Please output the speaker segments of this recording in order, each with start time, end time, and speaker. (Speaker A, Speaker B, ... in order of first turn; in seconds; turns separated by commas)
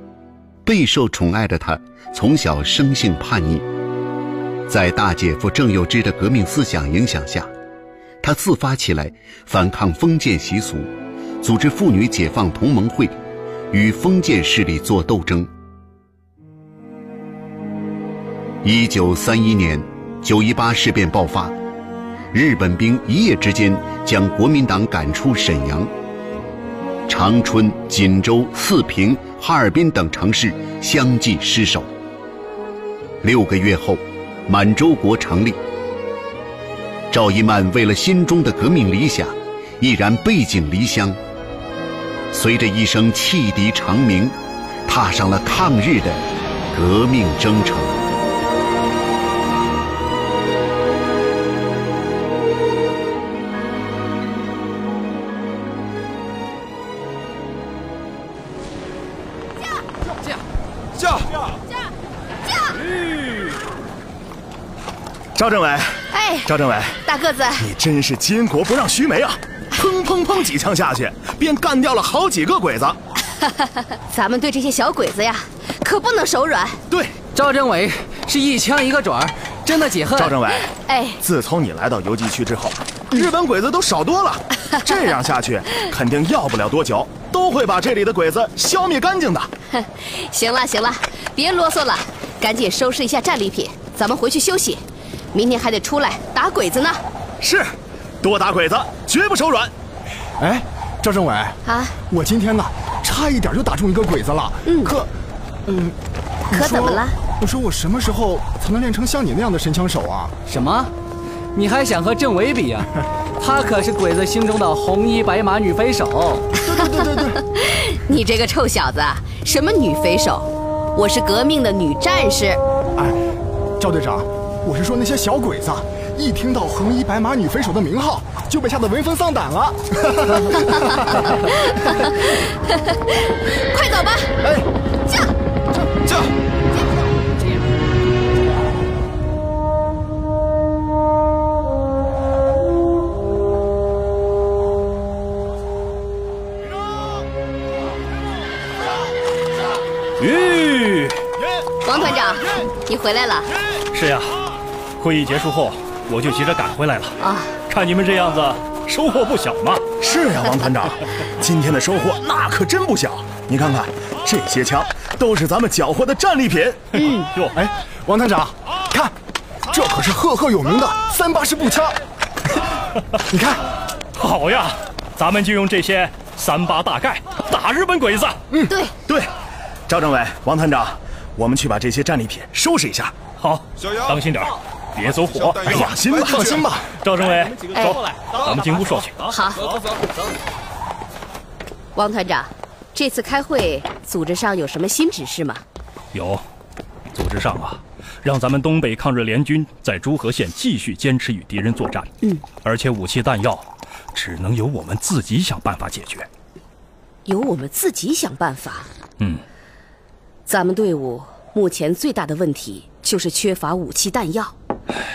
Speaker A: 0.6-3.7, Speaker A: 4.7-7.5, Speaker A: 8.2-10.9, Speaker A: 11.4-13.1, Speaker A: 13.7-15.5, Speaker A: 18.6-21.6, Speaker A: 22.3-25.9, Speaker A: 27.1-31.9, Speaker A: 33.2-35.6, Speaker A: 37.1-41.2, Speaker A: 42.3-48.0, Speaker B: 65.3-67.0, Speaker C: 66.1-66.5, Speaker C: 67.0-67.7, Speaker B: 67.6-73.0, Speaker C: 73.5-76.8, Speaker B: 76.9-77.2, Speaker D: 77.3-80.4, Speaker B: 80.2-80.7, Speaker C: 80.8-81.2, Speaker B: 81.2-89.5, Speaker C: 89.7-94.8, Speaker C: 95.3-97.0, Speaker B: 97.4-99.7, Speaker E: 100.4-105.1, Speaker C: 101.7-102.0, Speaker C: 104.7-104.9, Speaker E: 105.7-105.9, Speaker E: 106.5-110.3, Speaker C: 106.5-107.2, Speaker D: 110.5-110.9, Speaker D: 111.5-116.5, Speaker E: 116.6-117.4, Speaker C: 117.4-122.6, Speaker E: 123.8-131.3, Speaker C: 131.7-134.3, Speaker F: 150.2-151.2, Speaker C: 151.8-153.5, Speaker F: 153.9-154.4, Speaker F: 155.0-159.9, Speaker C: 157.2-157.5, Speaker B: 160.0-166.8, Speaker C: 166.9-167.3, Speaker E: 167.5-169.1, Speaker E: 169.7-172.0, Speaker E: 173.3-173.6, Speaker F: 174.2-178.4, Speaker C: 178.7-178.9, Speaker B: 179.9-183.2, Speaker F: 183.4-185.9, Speaker B: 185.7-186.8, Speaker E: 186.4-186.9, Speaker F: 187.0-189.3, Speaker C: 187.7-188.0, Speaker C: 189.2-189.7, Speaker C: 191.9-195.6, Speaker F: 196.1-196.4, Speaker F: 197.1-202.1, Speaker F: 202.6-206.3, Speaker C: 207.3-208.9, Speaker C: 210.5-214.5